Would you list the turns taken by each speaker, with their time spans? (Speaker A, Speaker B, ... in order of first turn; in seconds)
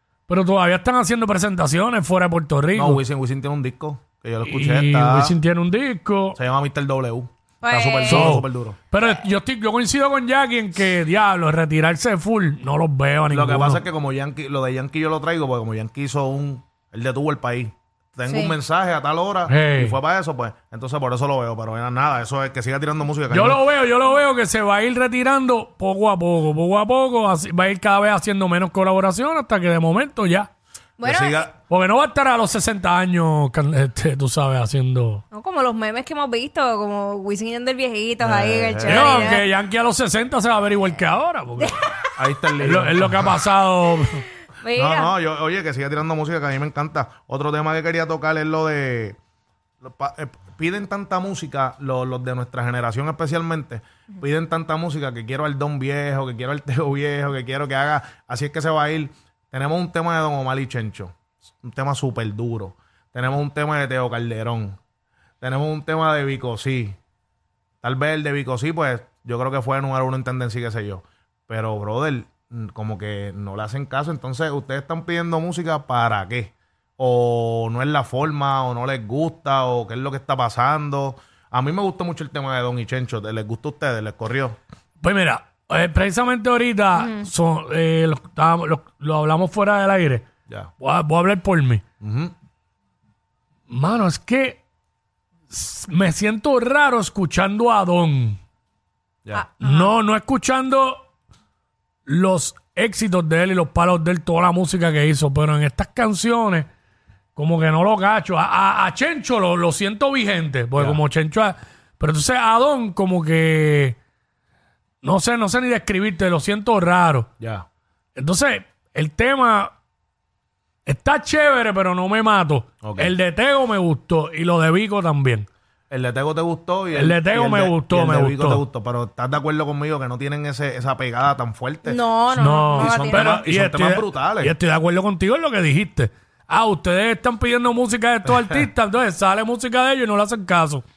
Speaker A: 0.3-3.0, 4.5-6.4, 8.1-13.8, 19.5-20.0, 23.3-30.5, 31.7-35.2, 38.9-41.9, 42.6-44.2, 85.0-90.2, 90.8-91.8, 93.7-94.6, 95.5-98.4, 99.6-101.0, 102.0-106.7, 107.3-114.0, 115.0-117.3, 118.2-119.7, 120.8-125.5, 126.9-128.6, 132.3-140.8
Speaker B: 2.7-5.3, 6.3-8.8, 13.3-23.6, 31.0-31.5, 38.2-39.3, 42.2-43.4, 44.7-49.2, 49.8-64.8, 65.4-67.0, 67.8-84.5, 92.0-92.3, 110.8-111.0, 117.4-117.7, 122.8-123.1, 125.9-132.0, 132.7-134.5, 138.2-138.7
Speaker C: 7.6-8.4, 18.3-18.5, 31.0-31.5, 35.3-39.4, 44.6-45.1, 87.0-87.3, 99.3-99.9, 131.8-133.4